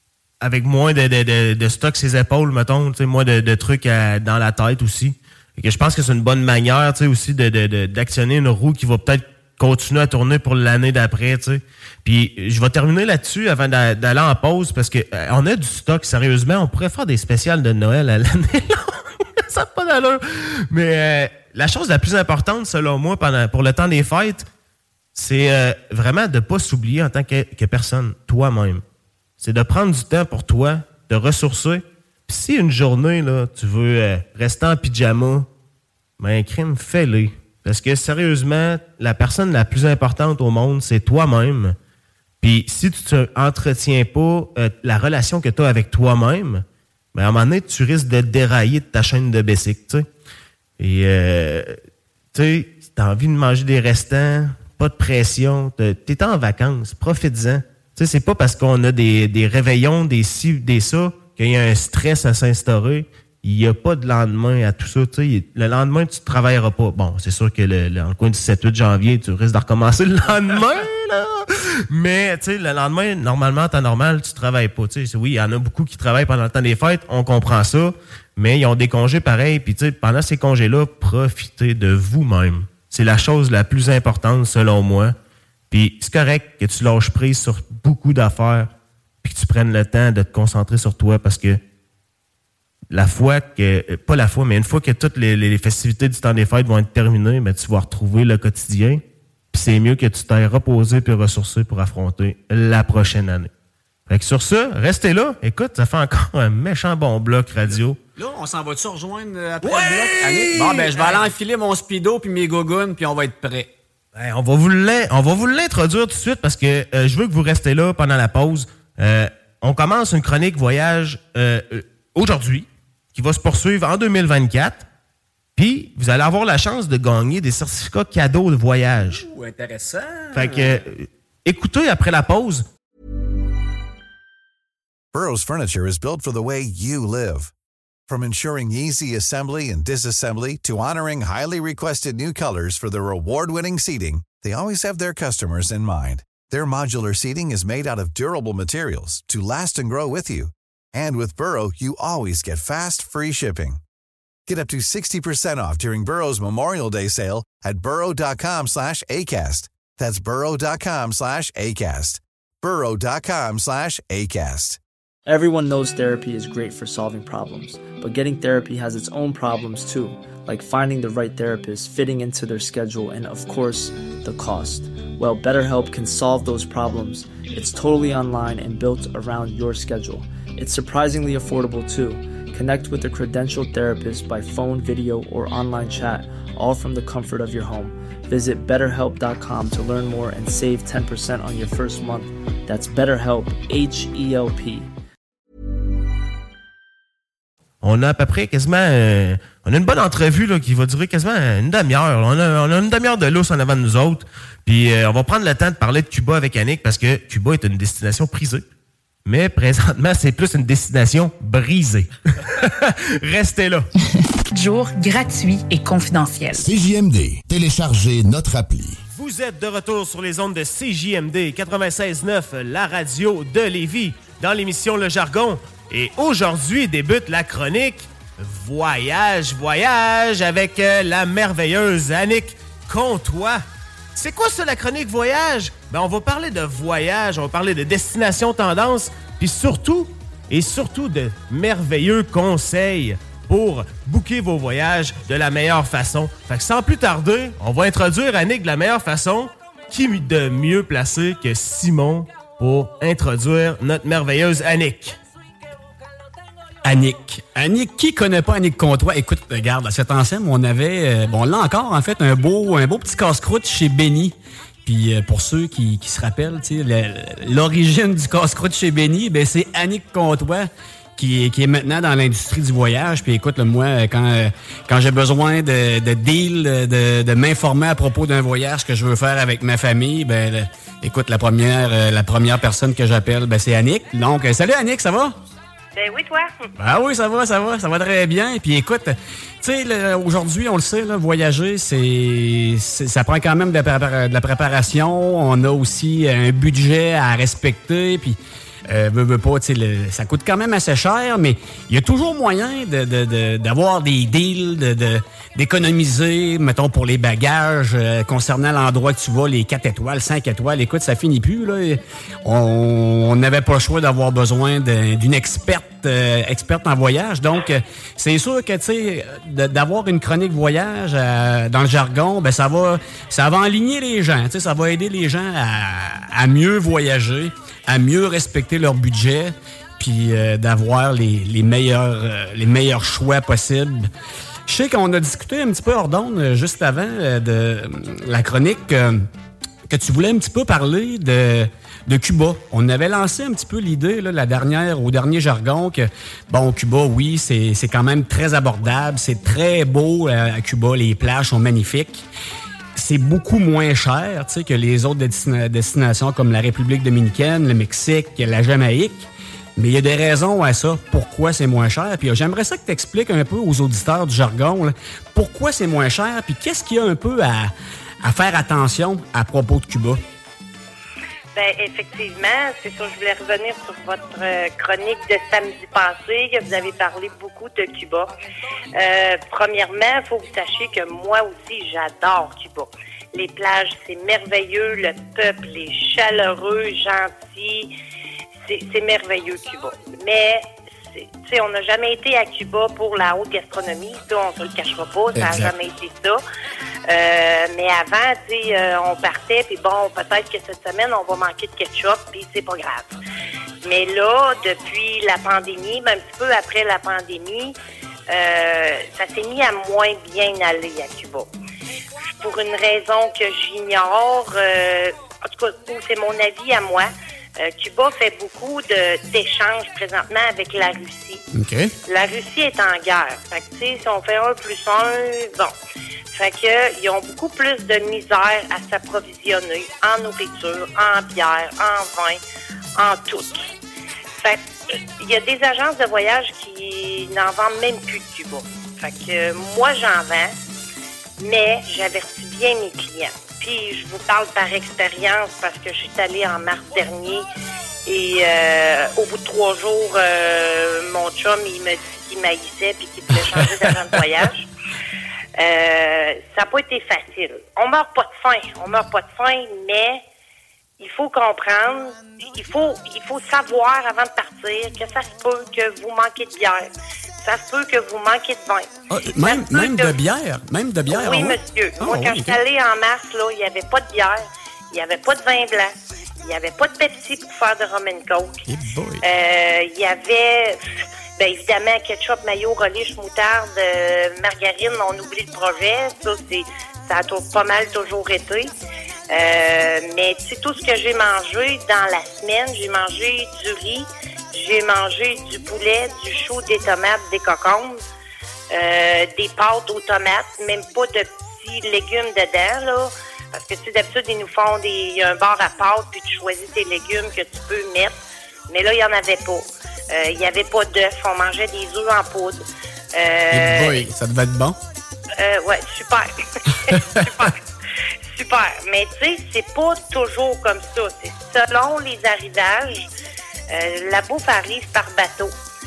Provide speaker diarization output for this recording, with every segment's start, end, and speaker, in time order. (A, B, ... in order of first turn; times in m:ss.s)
0:00.4-0:24.5 A
0:25.1-0:28.8 A
0:29.4-0:35.5 A
0:36.2-0:41.8 A
0:42.4-0:50.0 A
0:50.8-0:51.8 A
0:52.3-1:25.1 A
1:25.7-1:28.7 A
1:29.2-1:31.6 A
1:32.9-1:39.0 A
1:39.5-1:43.5 A
1:44.1-1:48.0 A
1:47.7-1:53.7 B
1:49.6-1:51.2 A
1:54.1-2:04.8 A
2:05.6-2:09.2 A
2:09.1-2:10.8 B
2:10.3-2:12.6 A
2:15.1-2:17.5 C
2:18.1-2:33.8 C
2:34.5-2:44.8 C
2:45.2-3:14.9 D
3:17.8-3:28.6 A
3:29.2-3:33.9 A
3:34.5-3:36.7 E
3:36.5-3:39.0 F
3:39.1-3:53.6 A
3:54.1-4:15.2 A
4:16.8-4:45.3 B
4:45.9-4:46.6 G
4:46.8-5:34.1 B
5:34.7-5:39.3 B
5:39.9-5:52.2 B
5:53.0-6:07.7 B
6:08.2-6:10.2 B
6:11.5-6:18.3 G
6:19.0-6:27.9 G
6:28.7-6:36.4 G
6:35.3-6:35.7 B
6:37.1-6:43.2 G
6:43.8-6:47.7 G
6:48.3-6:51.5 G
6:52.3-7:01.4 G
7:01.5-7:01.9 B
7:02.1-7:05.7 G
7:06.3-7:12.4 G
7:13.0-7:13.7 G
7:14.4-7:20.5 G
7:21.4-7:27.4 G
7:28.0-7:34.7 G
7:35.6-7:40.2 G
7:41.0-7:46.9 G
7:47.4-7:50.2 G
7:49.1-7:52.6 B
7:51.1-7:55.9 G
7:56.4-7:58.6 G
7:58.7-7:59.2 B
7:59.2-8:00.8 G
8:01.4-8:08.7 G
8:09.3-8:18.0 G
8:18.7-8:28.2 G
8:28.7-8:32.6 G
8:33.1-8:34.1 G
8:33.5-8:34.8 B
8:35.4-8:37.6 G
8:36.9-8:37.2 B
8:38.3-8:43.1 G
8:43.7-8:45.5 G